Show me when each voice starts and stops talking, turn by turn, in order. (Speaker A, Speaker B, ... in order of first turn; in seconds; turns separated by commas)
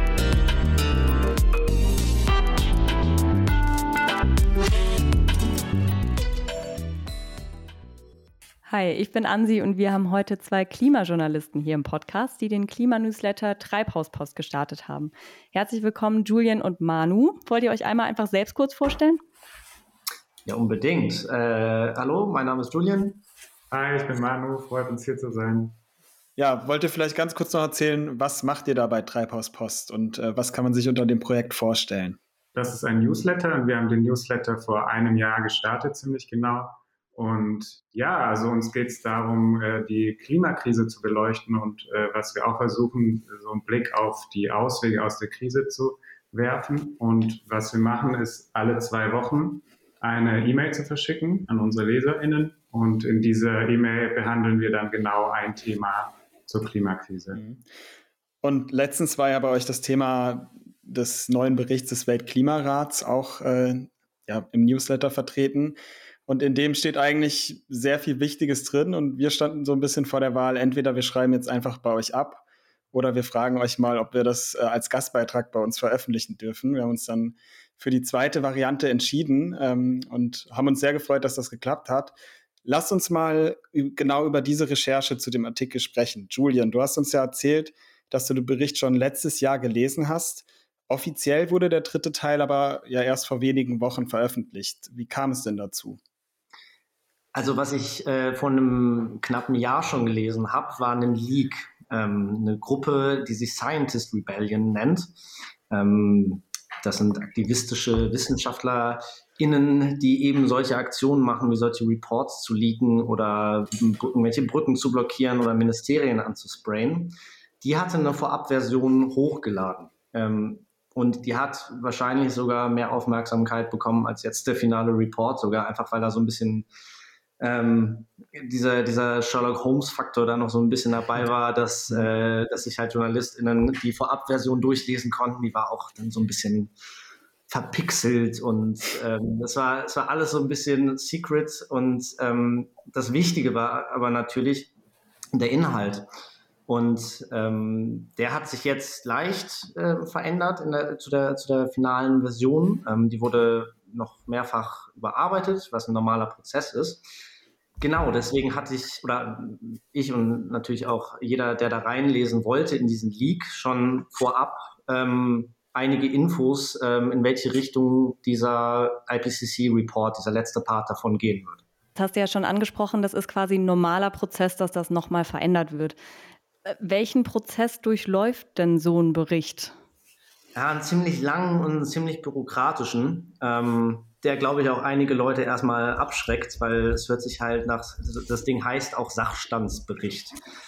Speaker A: 8.7-19.2, Speaker B: 20.4-23.2, Speaker C: 23.7-25.8, Speaker D: 26.4-32.2, Speaker C: 32.5-57.4, Speaker D: 57.4-57.6, Speaker D: 58.4-96.0, Speaker B: 97.3-105.1, Speaker B: 105.7-126.7, Speaker B: 127.4-136.7, Speaker B: 137.5-144.7, Speaker B: 145.3-146.1, Speaker B: 146.7-157.0, Speaker B: 157.8-171.6, Speaker A: 172.0-176.0, Speaker A: 176.7-179.7, Speaker B: 180.6-190.4